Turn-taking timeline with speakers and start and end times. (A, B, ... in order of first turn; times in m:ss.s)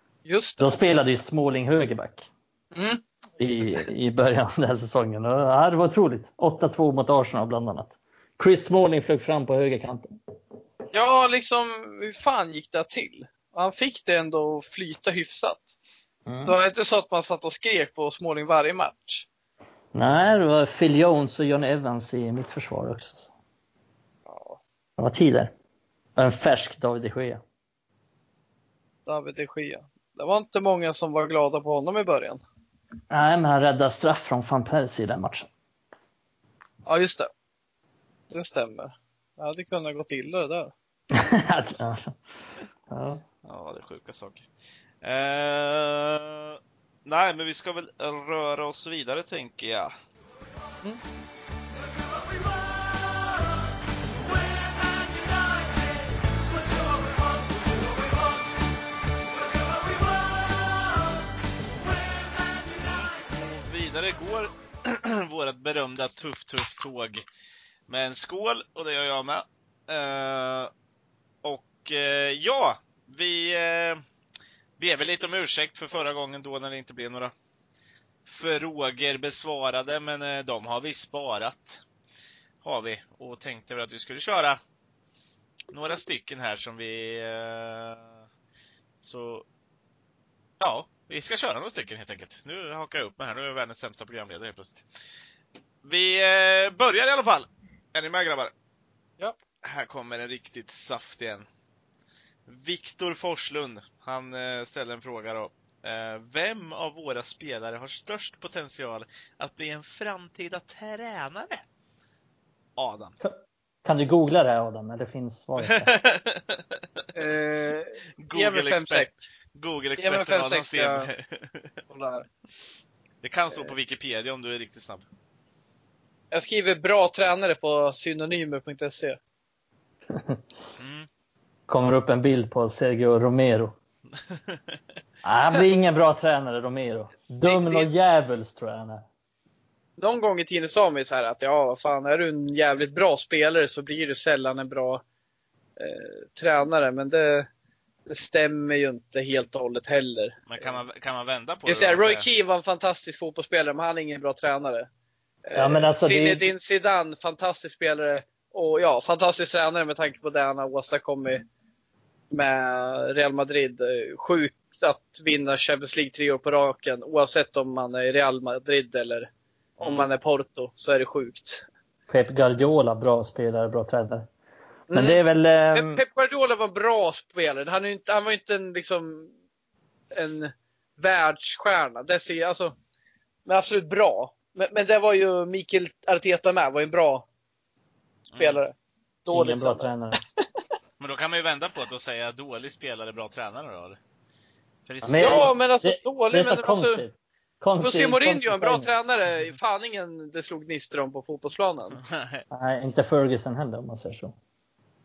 0:00.2-0:00.8 A
0:00.6-0:02.3 B
0:02.7-0:03.0 A
0:03.4-0:10.1 B
0:10.9-0:15.8 A
0:16.2-0:16.5 B
0:16.4-0:19.2 A
0:19.9-0:23.3 B
0:24.3-0:24.6 A
0:25.0-0:25.5 B
0:26.2-0:27.4 B
0:29.0-0:32.4 A
0:33.1-0:35.5 B
0:36.8-0:37.3 A
0:38.3-0:40.7 A
0:41.1-0:42.2 B
0:42.9-0:43.2 B
0:43.4-0:44.4 C
0:45.0-0:49.9 C
1:03.2-1:07.2 C
1:07.9-1:10.7 C
1:11.4-1:14.0 C
1:14.8-1:17.3 C
1:18.2-1:21.8 C
1:22.6-1:24.6 C
1:25.7-1:28.2 C
1:29.0-1:29.4 C
1:30.6-1:34.8 C
1:35.8-1:38.5 C
1:39.6-1:41.4 C
1:42.5-1:51.6 C
1:52.8-1:53.1 C
1:53.2-1:55.9 B
1:55.6-1:56.6 C
1:57.1-1:59.2 A
1:58.2-2:01.7 C
2:00.0-2:01.1 A
2:01.9-2:02.2 A
2:03.2-2:05.0 C
2:06.3-2:09.2 A
2:10.1-2:10.4 B
2:10.8-2:11.1 C
2:11.7-2:13.8 B
2:14.3-2:14.6 C
2:15.2-2:19.0 B
2:17.4-2:17.9 A
2:20.0-2:25.0 A
2:25.8-2:27.5 A
2:28.1-2:30.8 A
2:30.5-2:32.3 C
2:31.6-2:34.9 A
2:35.4-2:41.4 A
2:35.6-2:36.5 B
2:42.3-2:49.3 A
2:49.8-2:50.1 C
2:49.8-2:51.6 A
2:52.1-2:54.3 B
2:54.9-2:55.2 A
2:54.9-2:56.0 B
2:55.7-2:59.3 A
3:00.1-3:02.7 A
3:03.4-3:07.2 A
3:08.3-3:08.6 C
3:08.4-3:10.2 A
3:09.3-3:10.2 B
3:11.0-3:14.0 C
3:14.8-3:15.5 C
3:15.0-3:18.9 B
3:15.2-3:17.0 A
3:17.8-3:22.0 A
3:22.0-3:22.4 C
3:22.5-3:24.3 B